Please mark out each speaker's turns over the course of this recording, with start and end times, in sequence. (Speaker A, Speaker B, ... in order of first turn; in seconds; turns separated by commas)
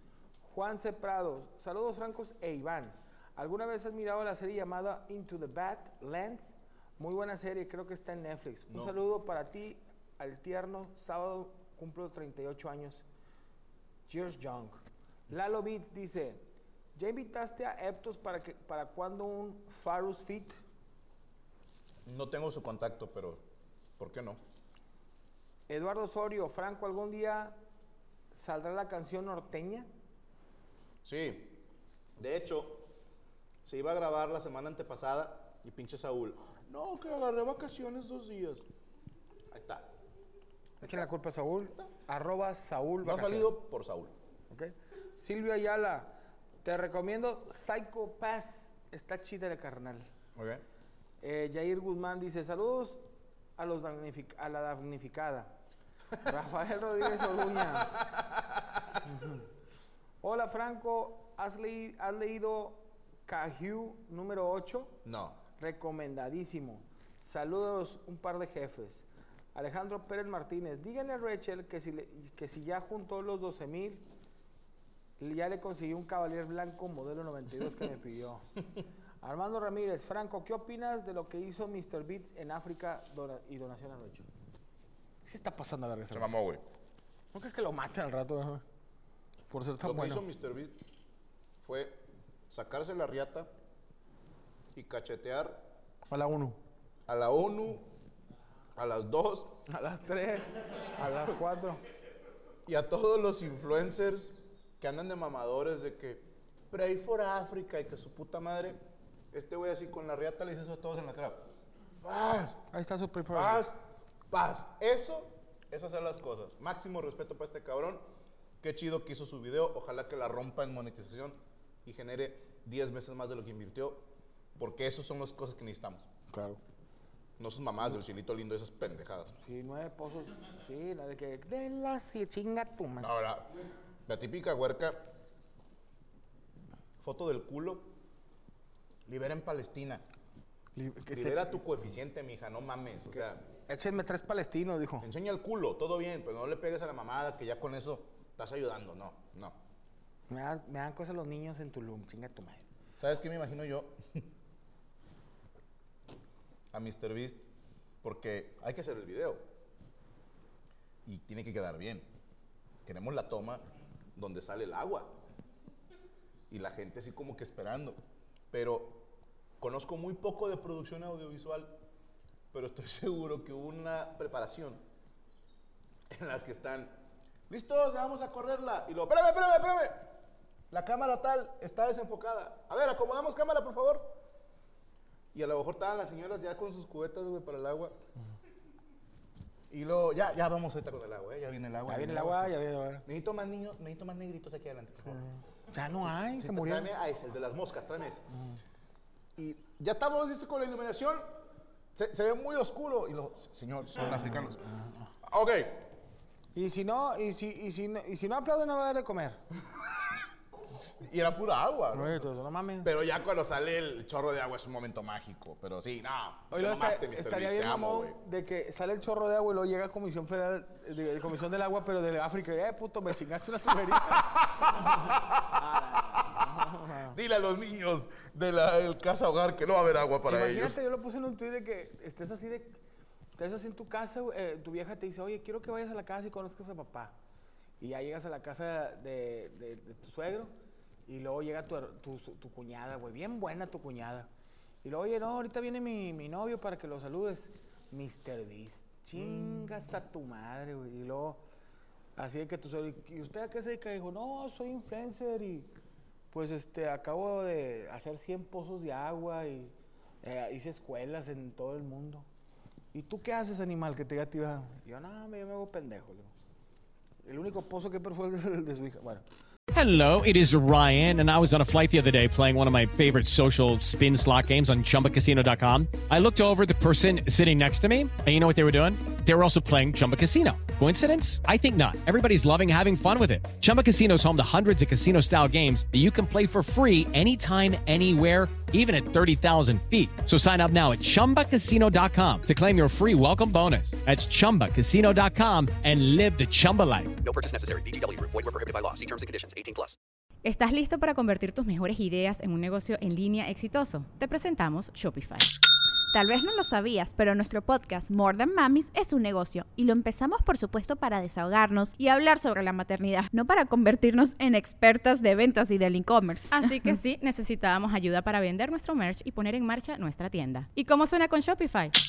Speaker A: 0.4-13.0, Speaker B: 8.7-9.0, Speaker A: 14.1-16.4, Speaker A: 16.9-20.6, Speaker B: 22.1-23.4, Speaker B: 24.0-24.4, Speaker A: 25.7-27.6, Speaker A: 28.3-29.9, Speaker B: 31.0-31.6, Speaker B: 32.2-32.9, Speaker B: 33.6-38.7, Speaker B: 39.5-39.9, Speaker B: 40.8-41.1, Speaker A: 40.8-43.5, Speaker B: 43.0-44.1, Speaker A: 44.5-50.1, Speaker B: 50.4-50.6, Speaker A: 51.2-53.0, Speaker A: 53.6-55.6, Speaker A: 56.1-58.0, Speaker B: 57.2-59.0, Speaker A: 59.1-59.4, Speaker A: 60.2-65.0, Speaker B: 65.0-65.4, Speaker A: 65.6-74.1, Speaker A: 75.2-78.5, Speaker A: 79.2-84.3, Speaker A: 85.2-86.3, Speaker B: 86.1-86.7, Speaker A: 87.3-88.6, Speaker A: 89.5-90.2, Speaker B: 89.8-90.8, Speaker B: 91.6-93.5, Speaker B: 94.7-95.7, Speaker A: 96.1-96.6, Speaker B: 97.1-97.9, Speaker B: 98.7-99.6, Speaker A: 99.7-101.8, Speaker B: 102.7-108.8, Speaker B: 109.3-111.4, Speaker B: 112.0-112.6, Speaker A: 112.7-113.7, Speaker B: 113.3-113.8, Speaker B: 114.3-118.0, Speaker B: 118.6-126.1, Speaker A: 126.3-126.6, Speaker B: 127.4-129.3, Speaker A: 129.4-133.1, Speaker B: 133.0-135.1, Speaker B: 137.0-137.9, Speaker B: 139.1-140.0, Speaker A: 140.8-141.7, Speaker B: 141.1-143.4, Speaker A: 143.7-145.1, Speaker B: 145.0-149.6, Speaker A: 150.3-152.7, Speaker B: 153.0-154.3, Speaker B: 156.7-157.5, Speaker B: 158.0-159.4, Speaker B: 161.0-162.1, Speaker B: 162.8-165.1, Speaker B: 166.5-168.0, Speaker B: 168.5-171.8, Speaker B: 172.5-174.8, Speaker B: 176.1-184.2, Speaker B: 185.3-188.0, Speaker B: 189.7-198.3, Speaker A: 191.9-193.1, Speaker A: 195.2-196.9, Speaker B: 199.4-201.4, Speaker B: 201.9-205.9, Speaker A: 206.5-209.4, Speaker B: 210.9-212.3, Speaker A: 211.9-212.9, Speaker B: 212.8-218.2, Speaker A: 216.5-227.2, Speaker B: 224.1-225.5, Speaker B: 226.2-230.8, Speaker A: 230.3-232.8, Speaker A: 233.3-237.2, Speaker A: 237.8-240.5, Speaker A: 241.1-244.3, Speaker A: 244.8-251.4, Speaker B: 249.1-249.7, Speaker A: 252.2-255.7, Speaker A: 256.3-262.3, Speaker A: 262.9-266.3, Speaker A: 267.2-269.2, Speaker C: 269.7-297.2, Speaker D: 297.2-300.0, Speaker E: 300.4-305.5, Speaker F: 306.1-316.5, Speaker E: 316.5-321.9